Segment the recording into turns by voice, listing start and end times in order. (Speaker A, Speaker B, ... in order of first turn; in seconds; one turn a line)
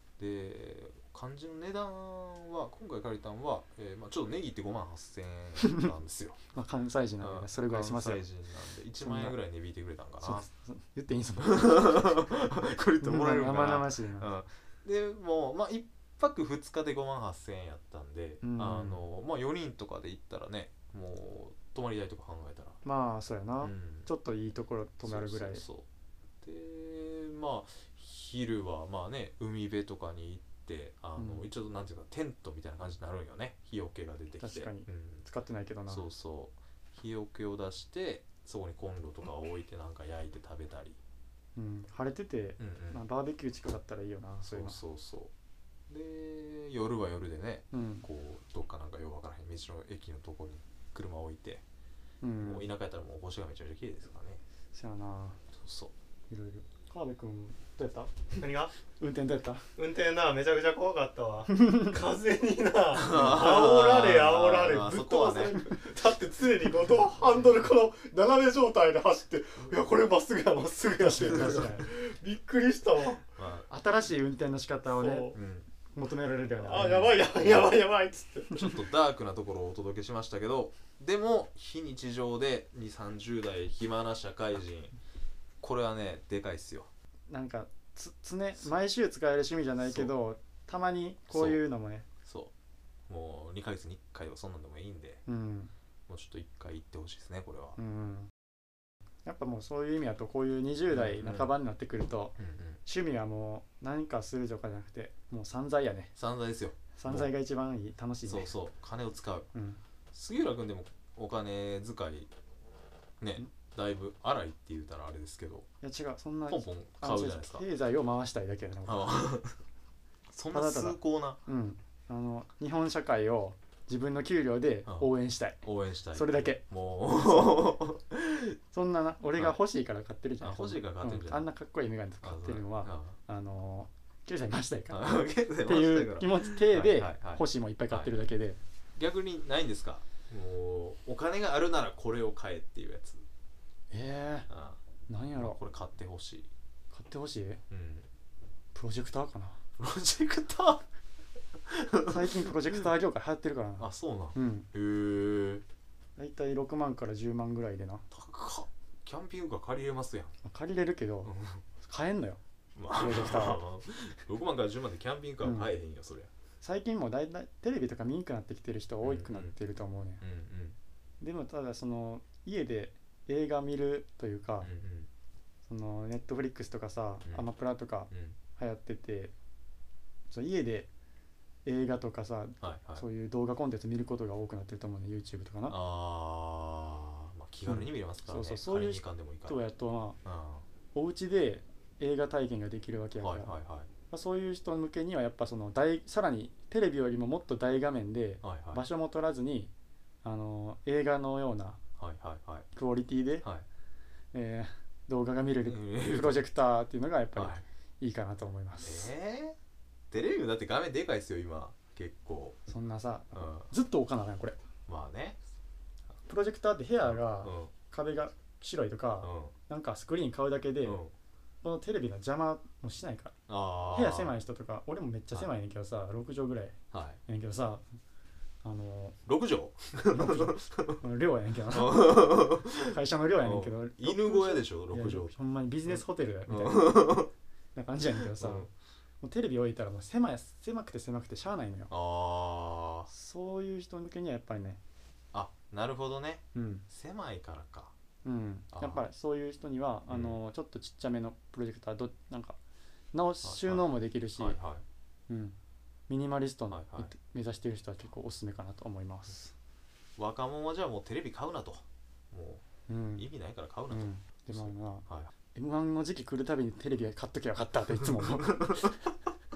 Speaker A: 0.2-6.4
Speaker B: 5.6-5.9
Speaker B: 6.5-8.2
Speaker A: 7.2-10.5
Speaker B: 9.0-9.3
Speaker B: 10.2-12.2
Speaker A: 11.4-22.8
Speaker B: 13.0-14.3
Speaker B: 18.4-19.0
Speaker B: 22.8-25.6
Speaker A: 23.6-24.1
Speaker A: 25.0-25.9
Speaker A: 26.4-35.2
Speaker B: 31.2-31.4
Speaker B: 34.4-36.0
Speaker A: 35.9-41.0
Speaker B: 41.5-44.8
Speaker A: 42.6-43.0
Speaker A: 44.4-45.3
Speaker A: 45.9-51.6
Speaker B: 47.7-48.0
Speaker B: 52.2-52.7
Speaker A: 52.4-54.4
Speaker B: 54.7-55.4
Speaker A: 55.5-55.9
Speaker B: 56.3-58.4
Speaker C: 58.4-58.7
Speaker B: 59.0-59.7
Speaker C: 59.8-73.2
Speaker B: 61.5-61.9
Speaker A: 62.9-65.7
Speaker B: 71.0-71.9
Speaker A: 73.3-73.7
Speaker B: 73.7-75.4
Speaker C: 74.9-75.3
Speaker A: 75.3-75.7
Speaker B: 75.9-77.2
Speaker C: 76.6-78.7
Speaker A: 76.9-77.5
Speaker A: 78.5-84.9
Speaker A: 85.6-86.9
Speaker B: 87.3-92.0
Speaker A: 89.8-90.1
Speaker A: 91.3-91.6
Speaker A: 92.2-92.5
Speaker A: 93.1-95.2
Speaker B: 95.2-95.7
Speaker A: 96.1-97.8
Speaker B: 97.8-98.3
Speaker B: 99.2-106.1
Speaker A: 100.9-101.5
Speaker A: 102.4-102.8
Speaker A: 106.1-107.3
Speaker B: 106.9-108.5
Speaker A: 108.2-109.5
Speaker B: 109.5-109.8
Speaker A: 110.1-112.3
Speaker A: 113.2-115.7
Speaker B: 115.8-119.2
Speaker A: 116.5-117.6
Speaker A: 118.8-119.6
Speaker A: 120.3-121.4
Speaker B: 120.5-126.6
Speaker A: 125.6-128.6
Speaker B: 127.3-127.6
Speaker B: 128.7-138.6
Speaker A: 130.4-131.5
Speaker A: 132.2-133.2
Speaker A: 134.9-138.1
Speaker A: 138.9-143.2
Speaker B: 143.9-144.5
Speaker A: 144.5-144.8
Speaker B: 145.1-145.6
Speaker A: 145.3-146.5
Speaker B: 146.9-147.6
Speaker A: 147.7-148.1
Speaker B: 148.7-149.6
Speaker A: 149.8-150.8
Speaker A: 151.6-152.5
Speaker B: 152.1-154.7
Speaker A: 153.8-155.6
Speaker B: 156.2-158.0
Speaker A: 158.1-160.3
Speaker B: 160.4-161.3
Speaker A: 161.2-161.6
Speaker B: 161.8-162.4
Speaker A: 162.7-166.3
Speaker B: 162.9-163.6
Speaker B: 165.4-165.7
Speaker B: 166.6-170.2
Speaker A: 169.0-169.5
Speaker A: 170.2-170.8
Speaker B: 171.2-174.7
Speaker A: 174.6-175.1
Speaker B: 175.7-179.3
Speaker A: 178.1-178.4
Speaker B: 180.3-180.9
Speaker B: 181.6-185.8
Speaker A: 182.6-183.0
Speaker A: 185.7-189.6
Speaker B: 187.7-190.2
Speaker A: 190.2-190.7
Speaker B: 190.9-193.5
Speaker A: 193.2-193.9
Speaker B: 194.1-199.7
Speaker A: 198.4-198.8
Speaker B: 200.2-201.8
Speaker A: 202.0-202.7
Speaker B: 202.7-203.5
Speaker B: 204.3-209.1
Speaker A: 205.6-206.4
Speaker A: 207.3-207.6
Speaker A: 208.8-209.6
Speaker A: 210.1-212.6
Speaker B: 212.7-214.6
Speaker A: 213.3-213.7
Speaker A: 214.9-215.4
Speaker B: 216.3-221.0
Speaker A: 217.1-217.7
Speaker A: 219.2-219.5
Speaker A: 220.8-221.1
Speaker B: 221.6-223.3
Speaker A: 223.5-224.3
Speaker B: 223.9-227.8
Speaker A: 226.9-227.2
Speaker B: 228.6-229.2
Speaker A: 229.2-231.0
Speaker B: 230.1-237.2
Speaker A: 231.7-235.3
Speaker A: 235.9-237.3
Speaker B: 237.7-238.7
Speaker A: 238.3-238.7
Speaker B: 239.2-241.9
Speaker A: 241.9-243.1
Speaker B: 243.1-244.8
Speaker A: 245.3-247.9
Speaker B: 246.5-246.8
Speaker B: 248.2-252.6
Speaker A: 248.7-249.0
Speaker A: 250.1-250.4
Speaker B: 253.1-254.6
Speaker A: 253.4-254.8
Speaker B: 255.3-255.6
Speaker B: 256.1-259.5
Speaker A: 256.7-257.1
Speaker A: 260.2-262.6
Speaker B: 262.9-263.3
Speaker A: 263.2-265.3
Speaker B: 263.9-269.0
Speaker A: 268.2-268.9